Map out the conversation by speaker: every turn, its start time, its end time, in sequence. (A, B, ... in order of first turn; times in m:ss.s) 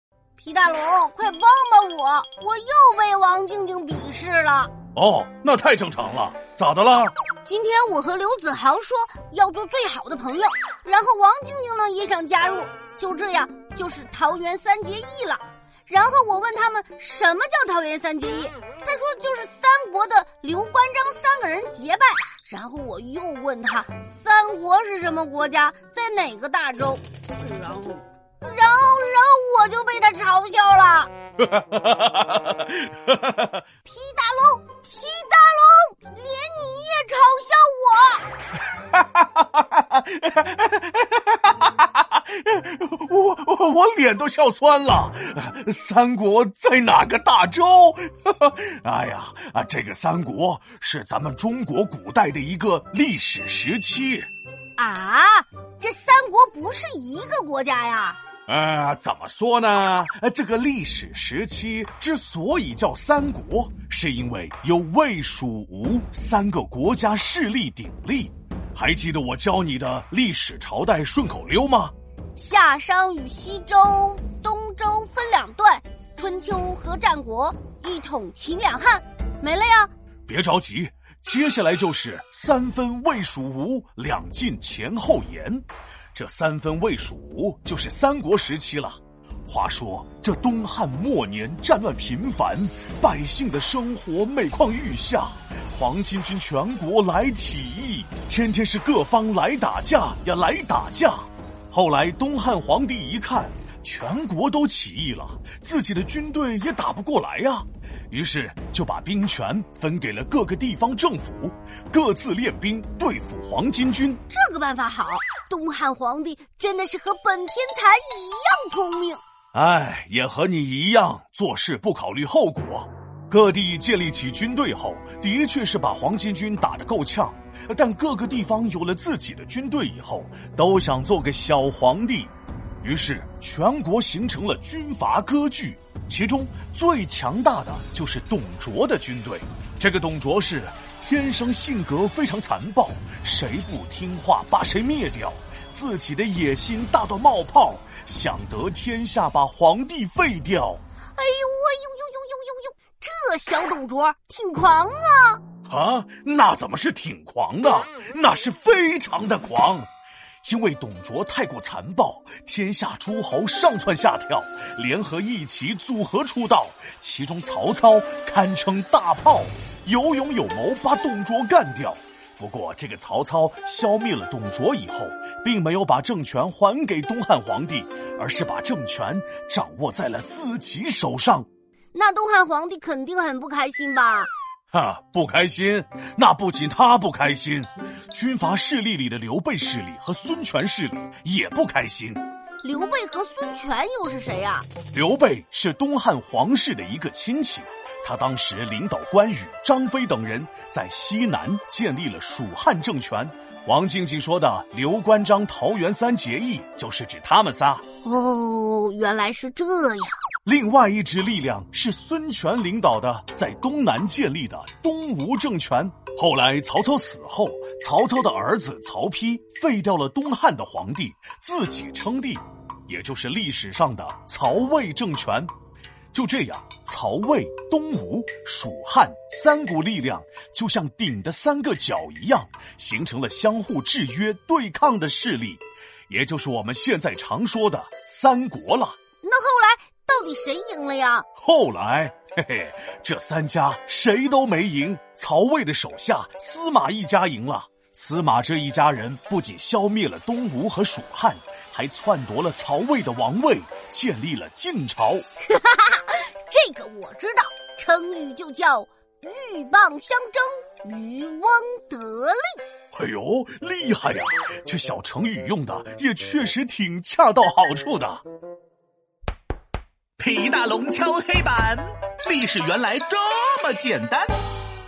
0:00.4-0:04.7 A
0:05.0-0:07.1 B
0:07.4-0:31.1 A
0:31.5-0:32.7 B
0:33.8-0:38.2 A
0:38.9-0:54.3 B
0:54.8-0:58.2 A
0:58.5-1:11.9 B
1:12.4-1:19.9 A
1:20.3-1:54.2 B
1:54.3-1:59.2 A
1:59.5-2:30.8 B
2:31.2-2:35.4 A
2:35.7-2:39.9 B
2:40.4-3:01.5 B
3:01.9-3:04.3 A
3:04.7-3:12.2 B
3:12.6-3:14.7 A
3:14.9-3:27.8 B
3:28.0-3:30.2 A
3:30.4-3:45.5 B
3:46.1-3:59.0 B
3:59.2-4:01.2 A
4:01.4-4:15.2 B
4:15.4-4:22.6 A
4:22.9-4:28.2 B
4:30.2-4:34.4 C